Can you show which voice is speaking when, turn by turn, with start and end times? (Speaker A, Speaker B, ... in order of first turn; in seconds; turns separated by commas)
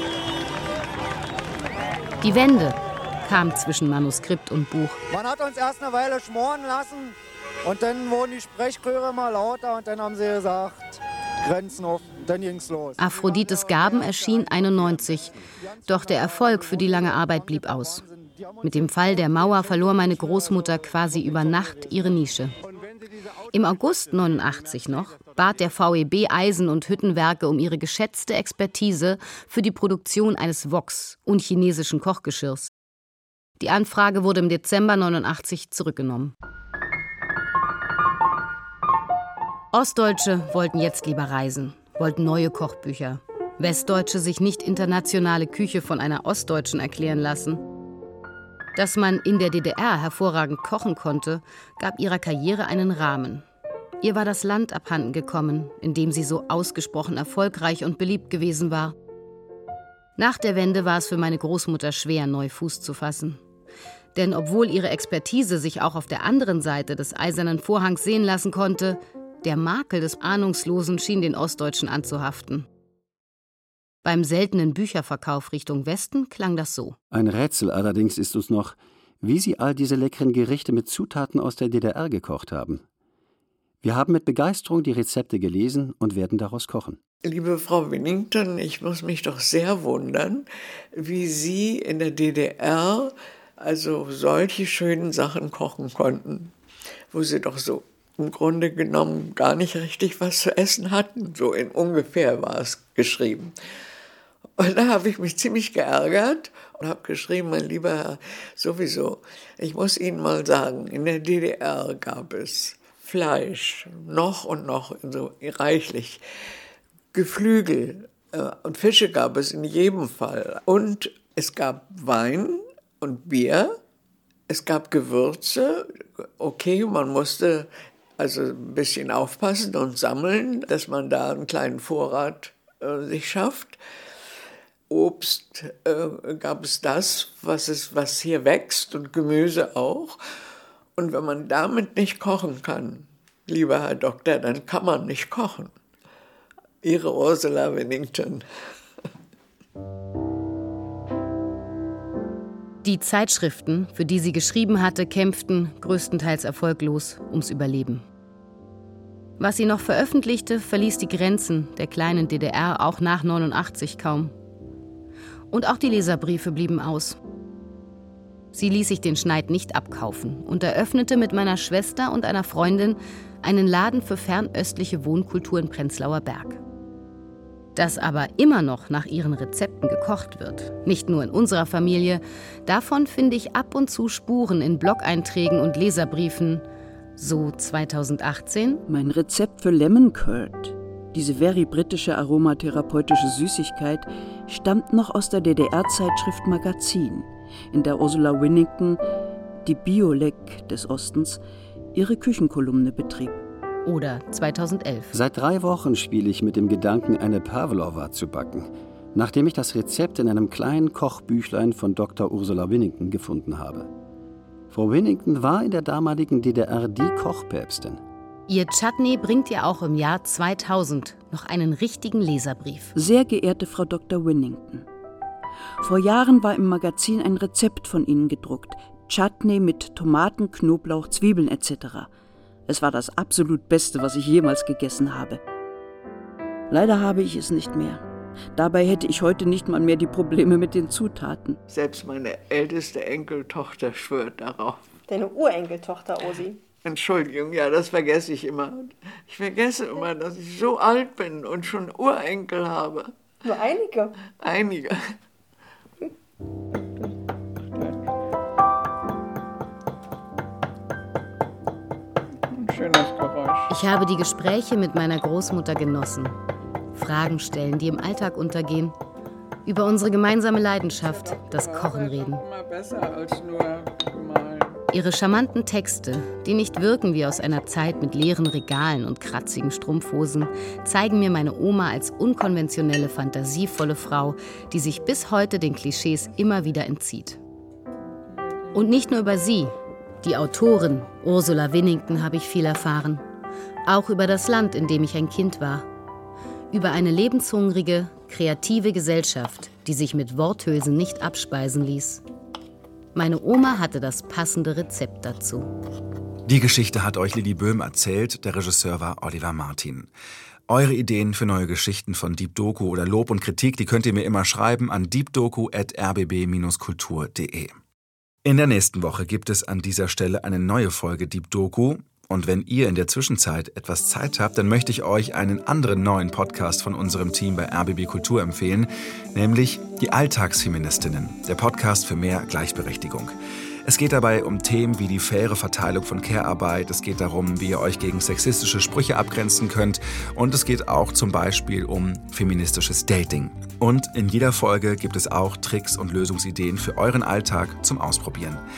Speaker A: 2.2-5.0, Speaker B: 5.1-25.6, Speaker A: 13.0-18.0, Speaker A: 18.6-22.6, Speaker A: 23.5-32.7, Speaker A: 33.6-36.3, Speaker A: 39.7-47.6, Speaker A: 48.8-53.5, Speaker A: 54.0-59.0, Speaker A: 60.2-63.4, Speaker A: 64.2-72.7, Speaker A: 74.0-77.0, Speaker C: 77.1-82.8, Speaker C: 83.8-87.0, Speaker D: 87.2-96.5, Speaker D: 97.1-103.5, Speaker D: 104.6-116.2, Speaker D: 117.1-123.8, Speaker D: 124.5-133.8, Speaker D: 134.9-140.2, Speaker D: 141.0-145.7, Speaker D: 146.8-148.4, Speaker A: 152.8-158.1, Speaker A: 159.4-164.3, Speaker A: 165.5-167.2, Speaker A: 168.5-176.6, Speaker A: 177.8-186.6, Speaker A: 187.2-188.8, Speaker E: 188.9-199.0, Speaker E: 199.7-201.4, Speaker E: 201.9-203.4, Speaker A: 203.8-205.1, Speaker C: 205.1-213.9, Speaker C: 214.7-218.0, Speaker A: 218.5-222.9, Speaker E: 223.0-224.9, Speaker E: 225.8-232.1, Speaker E: 232.7-235.4, Speaker E: 236.7-238.0, Speaker E: 238.6-241.6, Speaker D: 241.7-244.8, Speaker F: 245.1-246.6, Speaker D: 246.8-253.1, Speaker F: 253.4-254.2, Speaker D: 254.4-255.1, Speaker D: 256.8-257.1, Speaker D: 257.8-258.1, Speaker D: 262.5-263.7, Speaker A: 263.7-266.4, Speaker A: 266.9-268.9, Speaker A: 269.6-272.4, Speaker D: 270.9-274.8, Speaker A: 274.9-287.4, Speaker D: 288.4-288.7, Speaker A: 288.7-293.2, Speaker A: 293.9-295.9, Speaker A: 296.7-302.2, Speaker A: 303.1-305.7, Speaker G: 306.5-310.1, Speaker G: 310.7-317.8, Speaker G: 318.4-333.3, Speaker G: 333.9-348.6